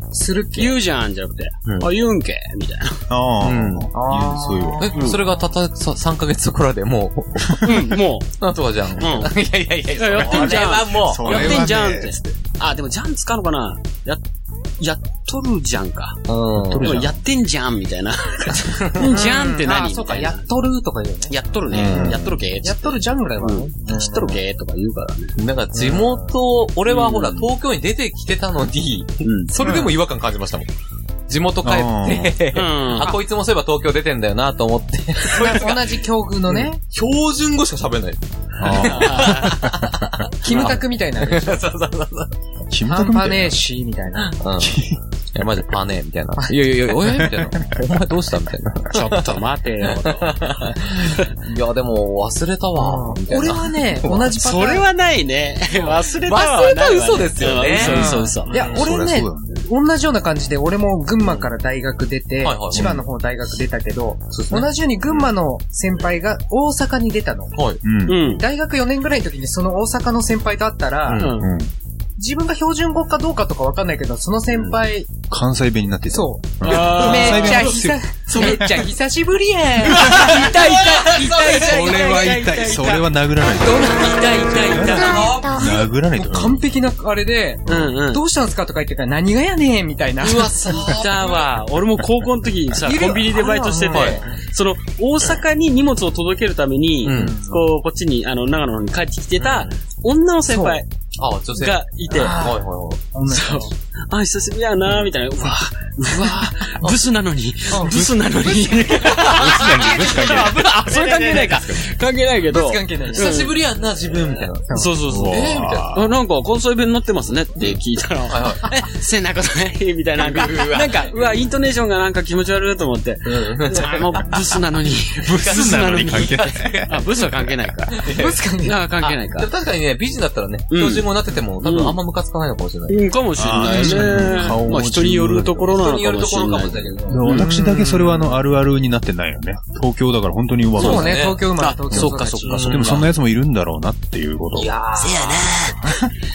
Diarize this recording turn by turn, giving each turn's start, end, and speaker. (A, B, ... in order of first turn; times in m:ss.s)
0:00.1-0:00.8 A
0:00.6-0:03.0 B
0:03.1-0:04.9 C
0:03.4-0:03.9 D
0:03.9-0:04.9 A
0:04.8-0:07.8 D
0:05.0-0:05.2 B
0:07.6-0:08.3 B
0:08.4-0:11.7 D
0:09.0-0:09.3 B
0:10.0-0:14.2 B
0:10.2-0:12.2 C
0:14.8-0:16.2 B
0:16.3-0:17.0 D
0:16.6-0:17.2 C
0:16.8-0:20.5 B
0:18.9-0:19.2 D
0:19.0-0:21.3 A
0:21.3-0:25.4 B
0:21.7-0:22.3 C
0:21.9-0:24.4 A
0:25.4-0:30.7 D
0:25.7-0:26.4 A
0:26.9-0:27.5 B
0:29.2-0:29.5 B
0:29.6-0:29.9 A
0:31.3-0:36.0 D
0:31.6-0:32.4 C
0:32.5-0:33.2 B
0:35.3-0:36.8 A
0:36.9-0:42.3 D
0:38.6-0:40.0 C
0:38.7-0:39.6 B
0:40.4-0:41.6 A
0:42.7-0:43.6 C
0:42.9-0:44.4 A
0:44.2-0:44.8 D
0:44.6-0:45.0 C
0:45.4-0:49.3 D
0:47.0-0:47.8 C
0:48.9-0:51.3 B
0:49.8-0:54.4 D
0:52.8-0:54.9 A
0:54.4-0:58.5 B
0:55.8-0:58.8 D
0:57.7-0:59.7 C
0:57.8-1:07.5 A
1:01.2-1:01.5 D
1:02.4-1:03.0 D
1:02.7-1:03.0 C
1:04.3-1:05.3 D
1:07.6-1:07.8 D
1:07.8-1:08.3 C
1:08.1-1:08.4 B
1:08.4-1:11.2 A
1:11.1-1:11.4 D
1:11.2-1:11.5 B
1:11.4-1:11.7 C
1:12.2-1:15.1 A
1:15.3-1:18.8 C
1:16.1-1:20.3 A
1:16.6-1:17.6 B
1:18.3-1:18.8 D
1:19.9-1:22.0 D
1:20.0-1:23.0 B
1:21.5-1:26.6 C
1:23.7-1:25.1 B
1:25.0-1:25.7 D
1:25.8-1:30.8 A
1:27.7-1:28.2 B
1:30.2-1:31.5 D
1:30.7-1:40.9 B
1:32.8-1:34.4 A
1:33.9-1:34.2 D
1:37.0-1:37.4 D
1:37.1-1:37.6 A
1:39.4-1:39.7 D
1:40.5-1:40.8 A
1:41.2-1:43.0 D
1:41.6-1:42.4 B
1:42.1-1:42.6 A
1:43.1-1:43.7 A
1:43.3-1:53.6 B
1:47.7-1:48.0 A
1:47.9-1:51.8 D
1:49.3-1:50.6 C
1:52.5-1:53.4 A
1:53.1-1:56.0 D
1:54.7-1:54.9 A
1:54.7-2:08.0 B
1:55.0-1:56.1 C
1:58.3-1:58.7 D
2:00.2-2:01.1 D
2:03.2-2:04.4 D
2:05.2-2:07.1 C
2:05.2-2:07.0 D
2:07.9-2:08.4 D
2:08.2-2:08.8 A
2:08.6-2:09.5 B
2:09.0-2:13.0 D
2:10.7-2:11.1 B
2:11.6-2:12.0 B
2:12.9-2:17.5 B
2:13.4-2:15.8 C
2:13.7-2:14.0 A
2:15.8-2:17.2 D
2:17.1-2:21.2 C
2:17.3-2:18.4 A
2:20.8-2:23.0 A
2:20.8-2:23.0 D
2:20.8-2:23.0 B
2:21.9-2:24.8 C
2:24.6-2:25.2 A
2:25.0-2:25.7 D
2:25.0-2:25.5 B